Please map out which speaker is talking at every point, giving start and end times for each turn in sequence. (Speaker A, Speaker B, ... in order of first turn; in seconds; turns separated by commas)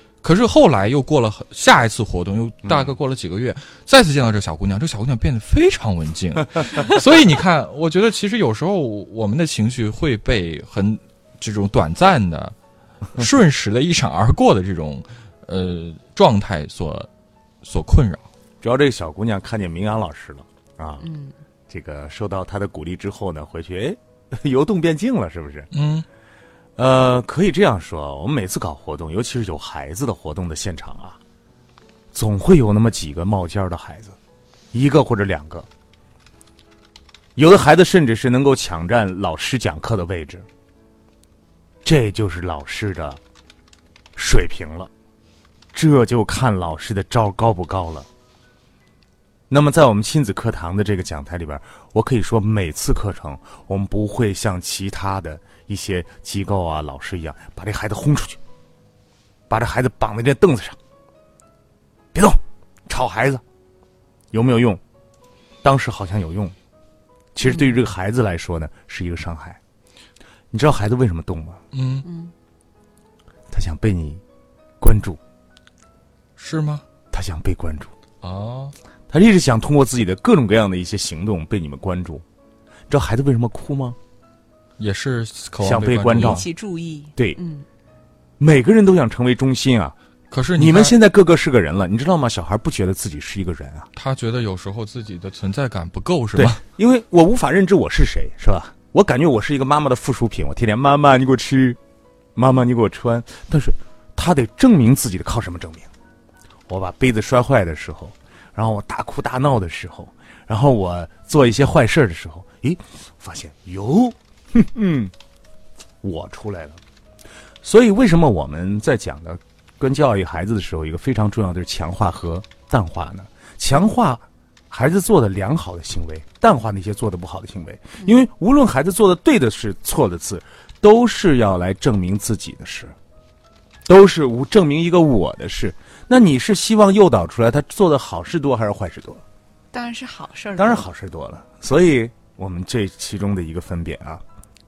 Speaker A: 0.2-12.5, Speaker B: 2.6-2.9, Speaker A: 13.1-17.1, Speaker A: 17.6-18.3, Speaker B: 18.6-21.0, Speaker C: 21.0-21.3, Speaker B: 21.7-25.7, Speaker A: 25.7-26.1, Speaker B: 26.8-31.2, Speaker B: 32.1-34.2, Speaker B: 34.7-35.7, Speaker B: 37.4-40.5, Speaker B: 41.8-43.2, Speaker B: 44.1-44.9, Speaker B: 45.7-48.1, Speaker B: 49.5-58.4, Speaker B: 59.5-60.8, Speaker B: 62.1-63.4, Speaker B: 64.3-64.8, Speaker B: 65.6-66.5, Speaker B: 67.3-69.6, Speaker C: 67.5-67.8, Speaker B: 70.5-71.6, Speaker A: 71.7-72.1, Speaker C: 72.0-72.3, Speaker B: 73.5-74.2, Speaker B: 74.8-75.2, Speaker A: 76.4-76.8, Speaker B: 77.1-77.9, Speaker A: 78.2-78.7, Speaker B: 79.1-82.2, Speaker B: 82.9-84.0, Speaker A: 84.8-86.5, Speaker B: 85.6-86.5, Speaker C: 86.1-87.7, Speaker B: 88.4-89.9, Speaker A: 90.3-90.9, Speaker B: 90.5-93.9, Speaker A: 94.0-96.6, Speaker B: 96.3-101.8, Speaker B: 102.3-105.9, Speaker B: 106.7-115.1, Speaker B: 116.0-116.8, Speaker B: 117.6-132.9, Speaker B: 133.9-139.2, Speaker C: 139.7-140.9, Speaker B: 140.6-144.2